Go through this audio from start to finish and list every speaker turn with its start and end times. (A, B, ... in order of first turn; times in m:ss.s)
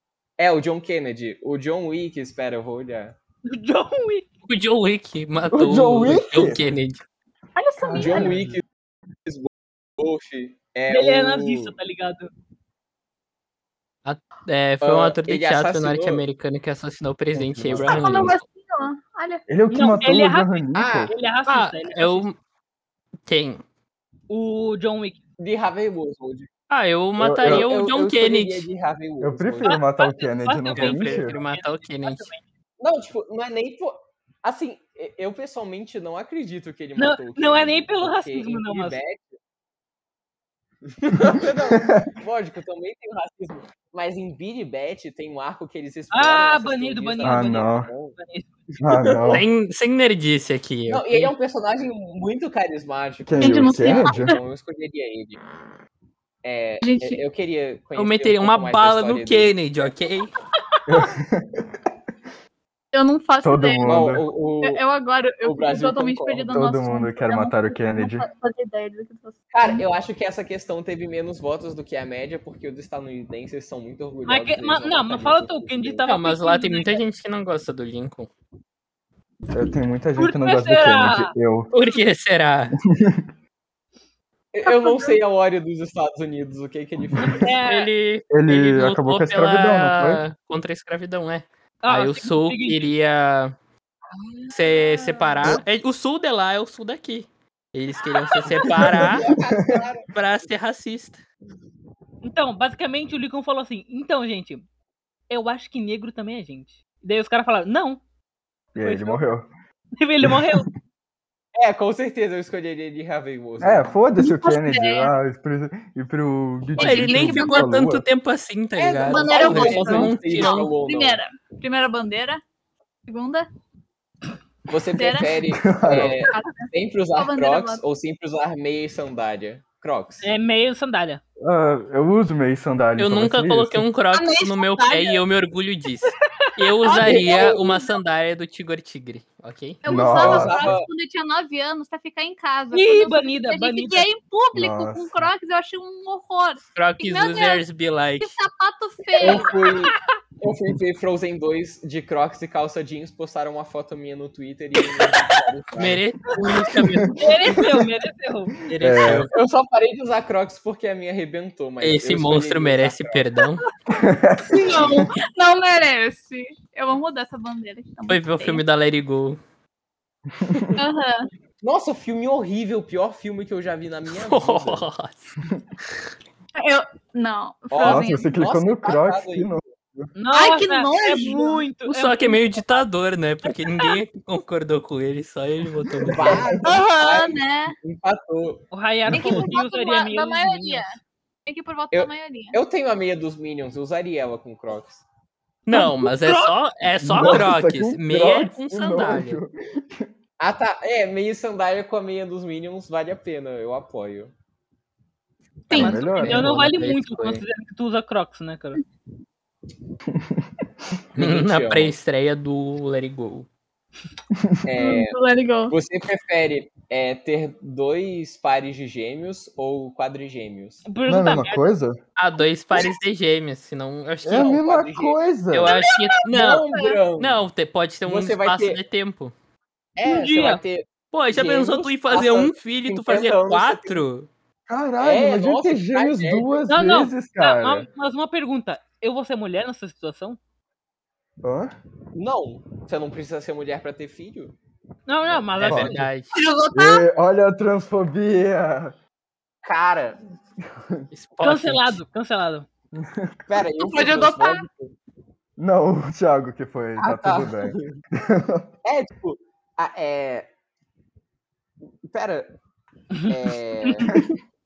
0:00.4-0:03.2 A
0:03.4-0:04.2 B
0:04.4-0:07.0 C
0:05.5-0:06.6 D
0:07.6-0:08.4 E
0:07.8-0:08.6 D
0:07.9-0:08.6 A
0:09.2-0:11.7 A
0:10.9-0:12.3 B
0:14.0-0:18.4 C
0:14.8-0:16.2 A
0:17.3-0:18.2 D
0:17.9-0:19.5 E
0:19.5-0:21.1 D
0:19.7-0:22.2 B
0:20.7-0:21.1 A
0:21.5-0:22.4 C
0:23.2-0:23.6 C
0:24.3-0:25.2 B
0:25.4-0:26.5 A
0:26.7-0:28.6 C
0:27.2-0:27.6 D
0:27.4-0:29.8 A
0:29.2-0:31.4 D
0:29.6-0:32.4 B
0:30.7-0:32.3 C
0:32.8-0:39.3 A
0:37.0-0:39.0 B
0:41.0-0:48.2 A
0:41.8-0:42.1 D
0:46.1-0:48.7 B
0:47.2-0:47.9 D
0:48.8-0:49.5 D
0:48.8-0:49.4 A
0:49.3-0:51.3 C
0:50.9-0:55.4 A
0:53.2-0:54.4 D
0:53.4-0:54.4 E
0:56.4-0:59.9 A
0:56.8-0:57.2 E
0:58.0-1:00.3 C
1:00.9-1:01.7 D
1:02.9-1:09.8 E
1:03.4-1:04.2 D
1:03.8-1:04.8 A
1:05.4-1:06.5 A
1:06.5-1:08.3 D
1:09.5-1:16.0 A
1:14.2-1:17.0 B
1:16.0-1:18.3 C
1:19.5-1:21.7 D
1:20.2-1:21.3 B
1:21.7-1:22.8 C
1:22.9-1:23.2 D
1:24.5-1:27.5 A
1:24.6-1:25.2 E
1:27.2-1:27.4 D
1:27.2-1:27.9 B
1:27.6-1:33.5 C
1:28.3-1:30.2 D
1:31.8-1:32.9 B
1:34.5-1:39.3 C
1:38.6-1:40.1 A
1:38.9-1:39.3 D
1:40.1-1:41.2 C
1:42.2-1:44.6 B
1:45.3-1:48.0 B
1:48.7-1:49.5 D
1:48.8-1:49.2 B
1:50.0-1:50.7 B
1:50.2-1:50.6 D
1:51.6-1:54.0 A
1:53.6-1:58.0 D
1:54.2-1:55.1 E
1:56.8-1:57.7 E
1:56.8-2:00.7 C
1:58.8-2:01.2 A
1:59.0-2:02.4 E
2:03.1-2:03.5 E
2:04.7-2:10.3 A
2:04.9-2:05.4 E
2:05.5-2:06.2 D
2:05.9-2:07.8 E
2:10.2-2:11.2 B
2:11.4-2:13.8 D
2:13.0-2:19.8 C
2:14.1-2:15.2 E
2:16.0-2:16.6 B
2:16.8-2:17.9 E
2:19.8-2:27.6 E
2:19.8-2:20.8 D
2:20.1-2:20.9 A
2:22.7-2:24.1 B
2:24.5-2:25.3 D
2:26.7-2:28.4 C
2:28.2-2:29.5 E
2:29.2-2:36.0 A
2:35.8-2:37.5 C
2:37.2-2:38.6 B
2:38.6-2:39.3 C
2:38.8-2:39.3 D
2:39.3-2:43.2 A
2:41.8-2:43.6 C
2:43.9-2:45.0 D
2:44.5-2:48.6 E
2:48.1-2:49.4 C
2:50.4-2:50.7 D
2:50.8-2:51.3 E
2:51.6-2:54.8 A
2:54.1-2:55.3 C
2:56.6-2:58.3 E
2:57.7-2:59.7 A
2:57.8-3:00.1 D
3:00.1-3:02.5 B
3:00.3-3:01.6 E
3:01.9-3:06.4 C
3:06.1-3:06.6 D
3:06.1-3:09.4 A
3:06.6-3:07.8 E
3:08.7-3:10.9 B
3:09.1-3:10.9 E
3:11.4-3:12.6 E
3:11.9-3:15.0 A
3:15.7-3:19.4 C
3:15.7-3:16.5 B
3:17.0-3:20.1 D
3:20.4-3:24.3 A
3:25.7-3:26.2 E
3:25.7-3:26.7 D
3:25.7-3:28.8 B
3:26.2-3:27.4 C
3:30.1-3:30.5 D
3:31.1-3:31.9 A
3:31.2-3:33.5 C
3:34.6-3:40.8 A
3:34.8-3:35.7 E
3:40.8-3:41.7 B
3:41.0-3:42.0 D
3:42.2-3:44.5 C
3:44.2-3:45.7 D
3:44.3-3:45.2 A
3:45.5-3:46.6 C
3:45.6-3:47.0 E
3:46.3-3:47.4 A
3:47.2-3:49.3 C
3:48.0-3:48.8 A
3:50.0-3:54.0 A
3:50.0-3:50.6 B
3:51.1-3:54.3 C
3:54.7-3:57.9 D
3:55.0-3:56.6 A
3:56.7-4:00.4 B
4:01.4-4:01.7 D
4:02.1-4:04.6 A
4:05.0-4:06.1 B
4:05.6-4:06.3 C
4:05.6-4:06.0 D
4:06.3-4:07.0 E
4:06.7-4:08.9 D
4:09.6-4:10.2 A
4:11.1-4:11.9 C
4:11.4-4:12.6 B
4:13.0-4:13.3 D
4:13.5-4:14.9 A
4:13.8-4:14.6 E
4:15.6-4:18.7 D
4:17.0-4:18.0 A
4:18.8-4:20.5 A
4:22.0-4:22.5 A
4:23.3-4:24.1 A